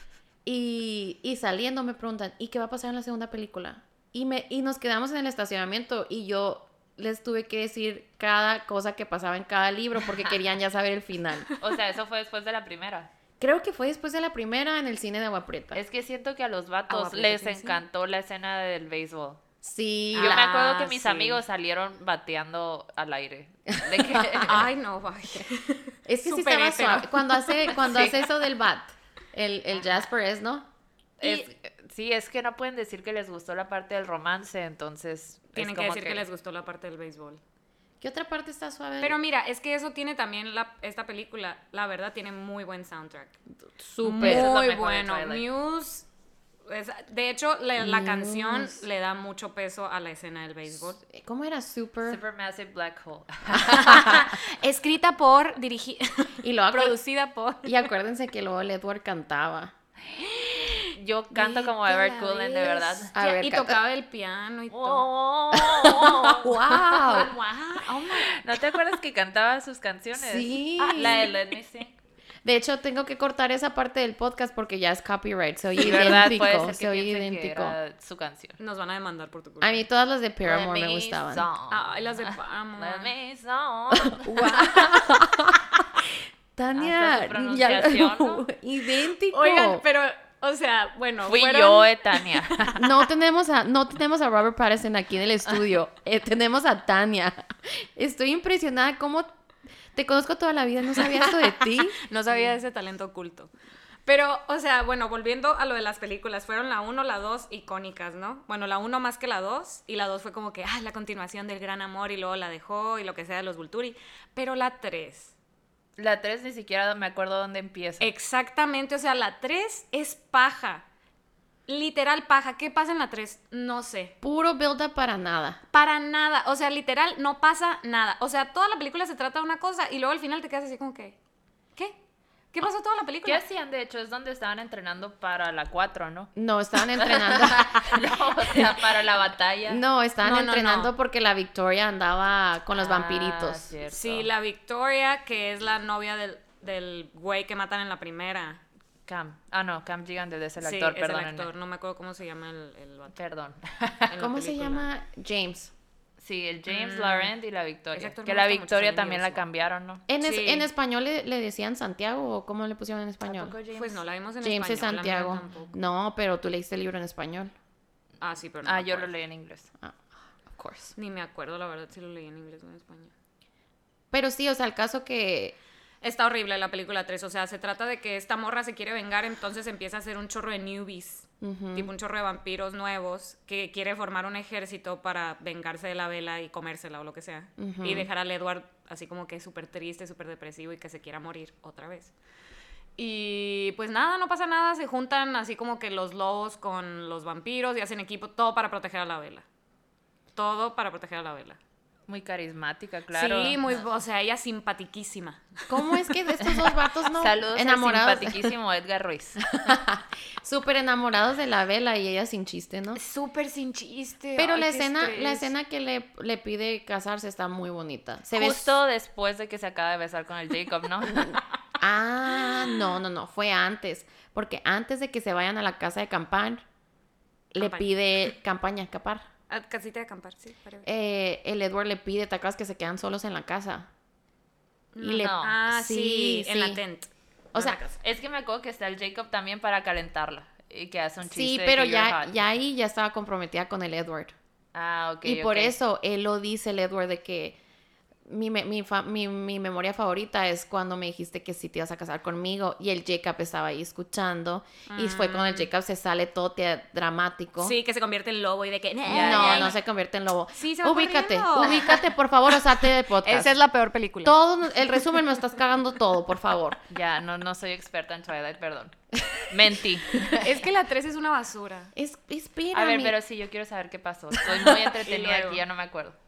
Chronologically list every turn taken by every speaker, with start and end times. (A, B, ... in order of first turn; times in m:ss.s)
0:00.4-0:11.5 A
0:11.6-0:13.1 B
0:13.4-0:15.8 A
0:15.7-0:19.4 B
0:16.9-0:17.8 C
0:19.6-0:21.4 A
0:20.1-0:24.7 B
0:20.2-0:20.5 C
0:23.9-0:24.5 A
0:24.4-0:28.0 C
0:26.0-0:30.6 A
0:27.8-0:28.1 B
0:31.2-0:36.2 B
0:31.2-0:31.5 C
0:35.5-0:37.4 C
0:38.0-0:39.2 A
0:39.0-0:43.4 C
0:43.7-0:44.5 A
0:44.0-0:46.0 C
0:44.2-0:45.4 B
0:46.6-0:51.0 C
0:47.8-0:48.8 A
0:51.0-0:52.2 A
0:52.0-0:54.3 B
0:53.6-0:57.8 C
0:56.4-0:57.0 A
0:57.6-0:59.7 A
1:00.2-1:05.1 C
1:00.8-1:03.1 B
1:03.1-1:03.8 A
1:04.7-1:07.2 B
1:05.5-1:07.3 A
1:06.7-1:08.6 C
1:07.8-1:12.0 B
1:10.2-1:11.2 A
1:10.8-1:11.3 C
1:12.4-1:17.8 A
1:15.8-1:18.6 B
1:18.6-1:19.8 C
1:19.6-1:21.4 A
1:20.4-1:24.8 B
1:21.7-1:23.1 C
1:24.0-1:29.8 A
1:26.7-1:28.5 B
1:29.3-1:32.8 C
1:31.2-1:32.8 B
1:32.8-1:39.3 A
1:39.9-1:42.0 A
1:41.0-1:41.3 C
1:42.0-1:43.5 C
1:44.0-1:55.3 C
1:56.0-1:58.1 B
1:58.0-2:00.8 C
2:01.7-2:04.1 C
2:04.2-2:05.6 A
2:05.7-2:11.2 C
2:12.5-2:13.4 C
2:13.2-2:16.3 B
2:16.4-2:18.8 A
2:16.9-2:19.8 B
2:19.7-2:23.7 A
2:20.2-2:20.9 C
2:22.7-2:24.3 B
2:23.9-2:28.6 C
2:29.1-2:31.5 B
2:30.6-2:33.2 C
2:33.1-2:34.1 B
2:34.1-2:34.9 C
2:34.2-2:35.7 A
2:36.2-2:40.0 B
2:36.7-2:37.3 C
2:37.9-2:39.4 C
2:40.1-2:43.6 A
2:40.2-2:40.7 C
2:43.2-2:44.0 B
2:43.7-2:45.8 C
2:44.4-2:47.5 A
2:48.2-2:49.1 C
2:48.6-2:49.7 B
2:49.8-2:50.9 A
2:51.0-2:53.1 C
2:54.1-2:55.6 A
2:56.0-3:12.1 C
3:01.4-3:01.9 A
3:07.6-3:08.1 A
3:13.0-3:19.4 C
3:20.4-3:21.6 C
3:22.1-3:23.6 B
3:23.1-3:25.7 C
3:25.7-3:28.6 A
3:27.0-3:29.4 B
3:29.6-3:33.0 A
3:32.9-3:35.5 C
3:34.4-3:38.8 A
3:38.3-3:41.4 B
3:41.8-3:46.6 A
3:47.5-3:49.2 A
3:47.6-3:47.9 C
3:49.5-3:50.9 C
3:50.8-3:53.9 A
3:54.9-3:57.9 C
3:55.0-3:56.8 A
3:55.1-3:55.6 B
3:57.5-3:57.8 A
3:57.9-4:02.4 B
4:01.2-4:04.3 A
4:04.7-4:05.8 B
4:05.2-4:07.6 A
4:08.2-4:17.8 A
4:14.9-4:15.7 C
4:17.6-4:19.7 C
4:19.1-4:19.8 B
4:19.1-4:23.5 A
4:20.5-4:22.1 C
4:22.6-4:24.3 C
4:24.2-4:26.8 A
4:26.9-4:30.5 B
4:30.4-4:31.9 C
4:31.9-4:33.2 A
4:32.7-4:36.2 B
4:34.5-4:35.6 C